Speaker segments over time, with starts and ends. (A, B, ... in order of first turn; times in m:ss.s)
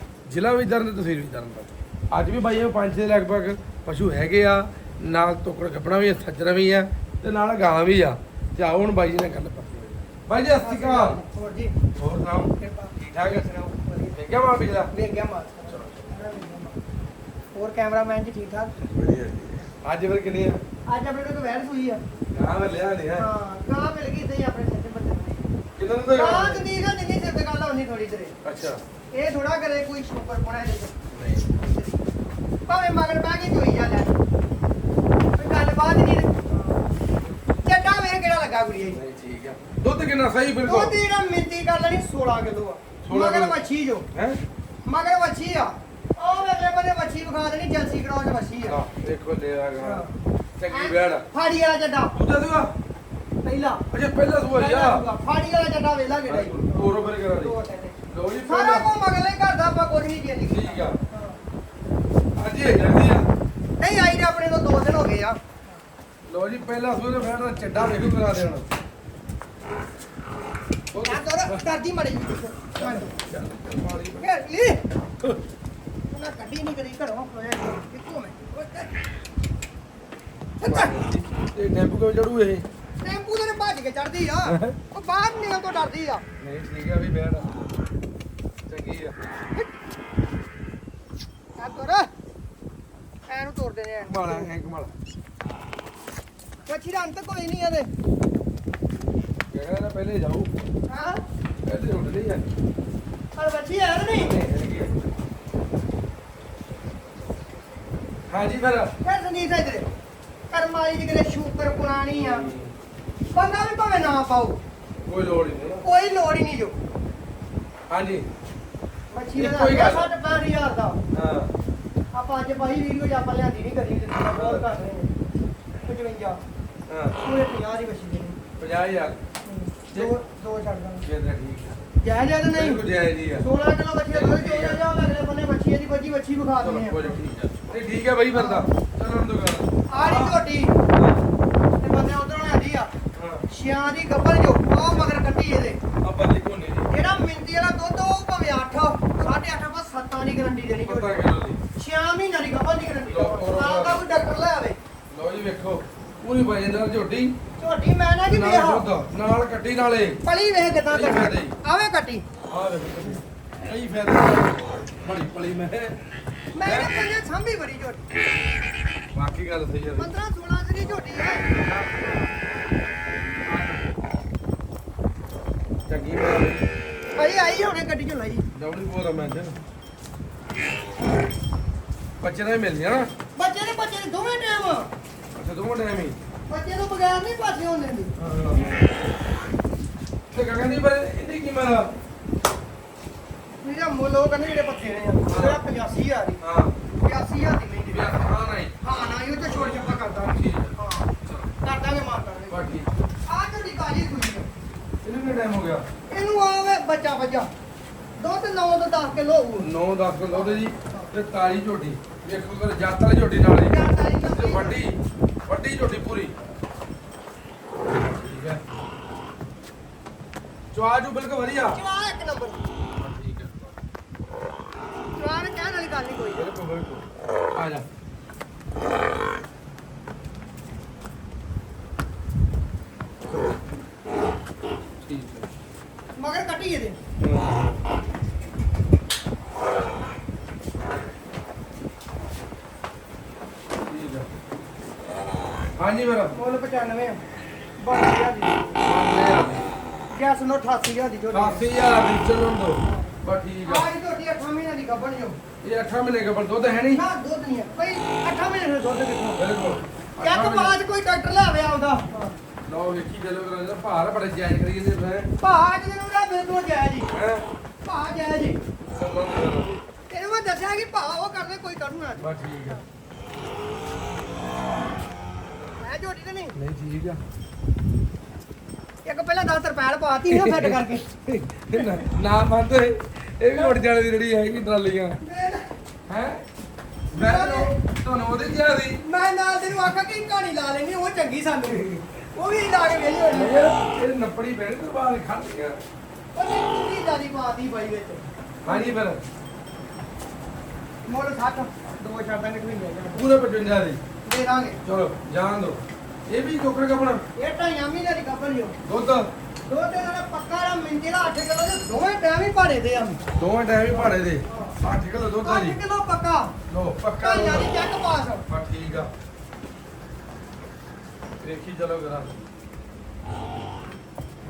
0:00.3-0:11.2 A
0:10.6-0:11.8 B
0:11.9-0:14.9 A
0:12.6-0:12.9 B
0:13.5-0:14.2 B
0:14.9-0:16.8 B
0:15.7-0:16.1 A
0:17.5-0:18.8 B
0:18.8-0:20.6 A
0:20.9-0:22.0 B
0:22.3-0:23.3 A
0:23.2-0:25.5 B
0:25.8-0:26.7 A
0:26.1-0:28.4 B
0:28.4-0:28.8 A
0:29.1-0:31.0 B
0:31.1-0:31.6 A
0:31.6-0:32.0 B
0:32.7-0:34.2 B
0:35.4-0:36.8 B
0:37.6-0:39.0 B
0:38.9-0:41.0 A
0:40.6-0:44.1 B
0:43.0-0:43.6 A
0:44.1-0:44.4 A
0:44.8-0:48.8 B
0:48.7-0:50.1 A
0:49.8-0:50.2 B
0:50.6-0:51.2 A
0:50.7-0:52.2 B
0:52.2-0:52.7 A
0:53.4-0:53.8 B
0:53.9-0:55.0 A
0:54.5-1:01.4 B
0:56.2-0:57.6 A
0:58.1-0:58.9 A
1:00.5-1:01.0 A
1:02.4-1:03.3 A
1:03.8-1:05.4 B
1:06.3-1:08.7 A
1:10.9-1:11.6 A
1:11.0-1:13.1 B
1:12.8-1:14.3 A
1:14.2-1:14.8 B
1:16.1-1:18.9 B
1:20.6-1:21.0 B
1:20.6-1:22.7 A
1:23.0-1:26.2 B
1:24.5-1:24.8 A
1:26.4-1:27.5 A
1:28.7-1:29.2 A
1:31.6-1:32.1 B
1:33.3-1:34.5 B
1:34.1-1:34.9 A
1:36.7-1:37.9 B
1:39.5-1:40.5 A
1:40.9-1:41.2 B
1:41.6-1:42.5 A
1:43.4-1:44.4 B
1:44.1-1:45.0 A
1:48.3-1:49.0 A
1:49.0-1:49.9 B
1:50.5-1:52.5 B
1:52.1-1:52.7 A
1:53.3-1:54.6 B
1:55.0-1:55.8 A
1:55.8-1:56.8 B
1:57.9-1:58.3 A
1:59.1-2:01.0 B
1:59.4-2:00.1 A
2:01.1-2:01.5 A
2:02.1-2:05.1 B
2:04.3-2:04.7 A
2:05.9-2:06.4 B
2:06.9-2:07.2 A
2:07.2-2:08.4 B
2:08.6-2:09.2 A
2:09.5-2:11.0 B
2:11.0-2:11.8 A
2:12.0-2:12.8 B
2:12.5-2:13.5 A
2:13.4-2:17.2 B
2:14.1-2:14.8 A
2:16.6-2:20.4 A
2:18.3-2:18.7 B
2:19.9-2:20.8 B
2:20.9-2:21.2 A
2:21.8-2:22.9 B
2:23.1-2:23.5 A
2:23.5-2:25.8 B
2:26.0-2:26.9 A
2:26.9-2:31.2 B
2:30.8-2:31.6 A
2:31.8-2:34.8 B
2:33.1-2:34.0 A
2:35.1-2:37.4 A
2:37.6-2:38.9 B
2:38.3-2:40.2 A
2:40.2-2:42.3 B
2:40.9-2:41.6 A
2:42.5-2:46.0 A
2:46.5-2:48.0 B
2:46.6-2:47.0 A
2:49.1-2:50.1 A
2:50.0-2:51.5 B
2:51.4-2:52.1 A
2:53.5-2:53.8 A
2:55.9-2:56.7 A
2:57.2-2:58.5 B
2:58.5-2:59.6 A
3:02.2-3:03.1 A
3:03.4-3:04.9 B
3:05.3-3:06.2 A
3:06.5-3:08.2 B
3:08.2-3:08.8 A
3:10.3-3:11.9 A
3:13.6-3:16.4 B
3:15.3-3:15.6 A
3:16.4-3:16.7 A
3:17.0-3:18.2 B
3:17.9-3:18.8 A
3:18.8-3:21.1 B
3:19.5-3:21.5 A
3:21.6-3:22.6 B
3:22.5-3:22.9 A
3:23.3-3:24.5 B
3:25.0-3:25.8 A
3:26.1-3:27.5 B
3:28.2-3:29.7 B
3:29.6-3:36.3 A
3:30.3-3:31.1 B
3:33.7-3:34.8 B
3:37.9-3:38.6 A
3:40.7-3:41.8 A
3:41.7-3:42.6 B
3:43.0-3:43.7 A
3:45.1-3:46.4 B
3:46.3-3:47.0 A
3:47.6-3:47.9 A
3:55.0-3:55.5 A
3:56.2-3:57.0 B
3:57.2-3:57.8 A
4:03.9-4:04.3 A
4:05.8-4:06.4 A
4:06.3-4:07.2 B
4:07.8-4:08.8 B
4:08.8-4:09.7 A
4:10.1-4:11.7 B
4:11.3-4:13.9 A
4:12.8-4:13.1 B
4:13.6-4:15.4 B
4:15.6-4:17.0 A
4:16.9-4:19.4 B
4:19.4-4:20.8 A
4:20.2-4:22.4 B
4:22.7-4:25.3 A
4:25.4-4:27.1 B
4:27.1-4:27.5 A
4:27.8-4:28.6 B
4:28.9-4:29.8 A
4:30.1-4:32.7 B
4:32.2-4:32.8 A
4:35.8-4:36.6 B
4:36.6-4:37.2 A
4:39.0-4:41.1 B
4:40.3-4:45.2 A
4:45.2-4:45.7 B
4:46.1-4:46.4 A
4:47.1-4:49.0 A
4:47.1-4:47.8 B
4:49.0-4:53.6 B
4:53.3-4:55.8 A
4:56.3-4:58.9 B
4:58.6-4:59.2 A
5:01.1-5:03.3 B
5:03.1-5:04.0 A
5:04.2-5:04.8 B
5:04.8-5:07.2 A
5:07.4-5:08.8 B
5:08.9-5:09.3 A
5:09.7-5:13.2 B
5:13.4-5:15.8 A
5:14.5-5:14.8 B
5:15.4-5:16.5 B
5:16.7-5:17.7 A
5:17.2-5:18.4 B
5:18.5-5:19.1 A
5:21.4-5:22.4 A